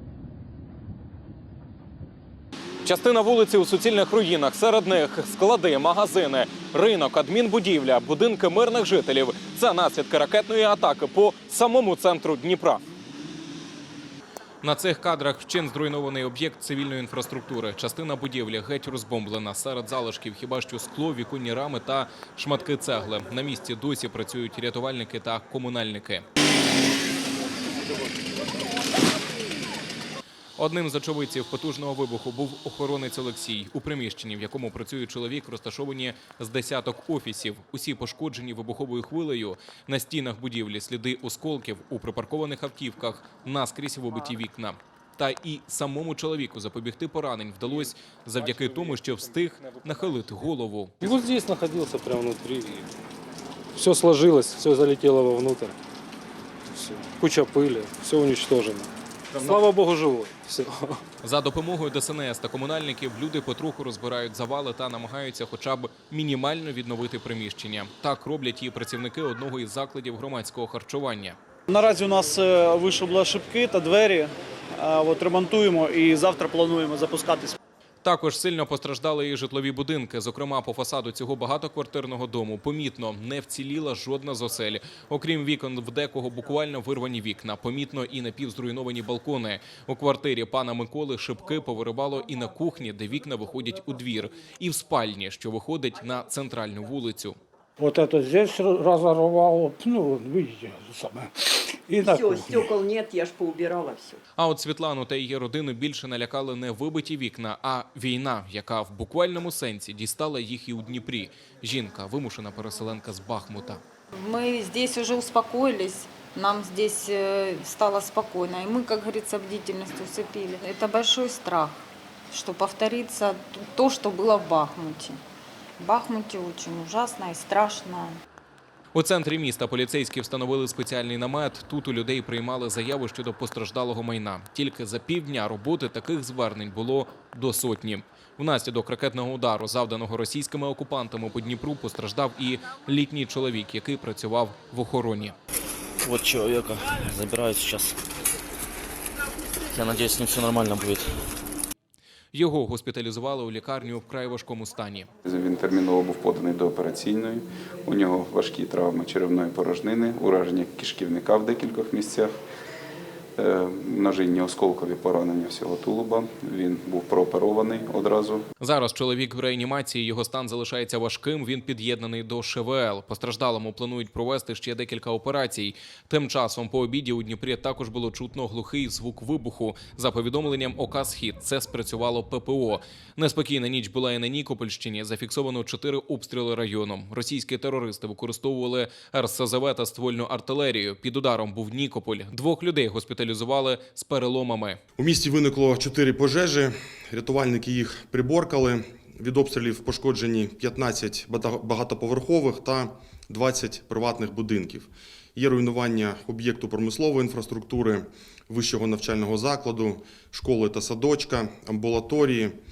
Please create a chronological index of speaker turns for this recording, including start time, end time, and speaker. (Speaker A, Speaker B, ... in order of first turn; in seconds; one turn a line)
Speaker A: 2.8-12.8
Speaker A: 14.6-26.2
Speaker A: 30.6-51.0
Speaker B: 51.0-52.9
Speaker B: 53.7-55.8
Speaker B: 56.7-61.0
Speaker A: 61.2-71.4
Speaker C: 71.7-77.5
Speaker A: 78.0-97.4
Speaker D: 97.8-102.8
Speaker E: 102.0-104.2
Speaker A: 104.4-113.8
Speaker F: 114.1-125.2
Speaker F: 125.8-128.2
Speaker A: 128.9-145.3
Speaker G: 146.0-148.0
Speaker G: 149.7-151.2
Speaker A: 152.3-155.1
Speaker H: 155.2-162.3
Speaker H: 163.4-168.4
Speaker A: 168.6-194.8
Speaker I: 195.0-212.6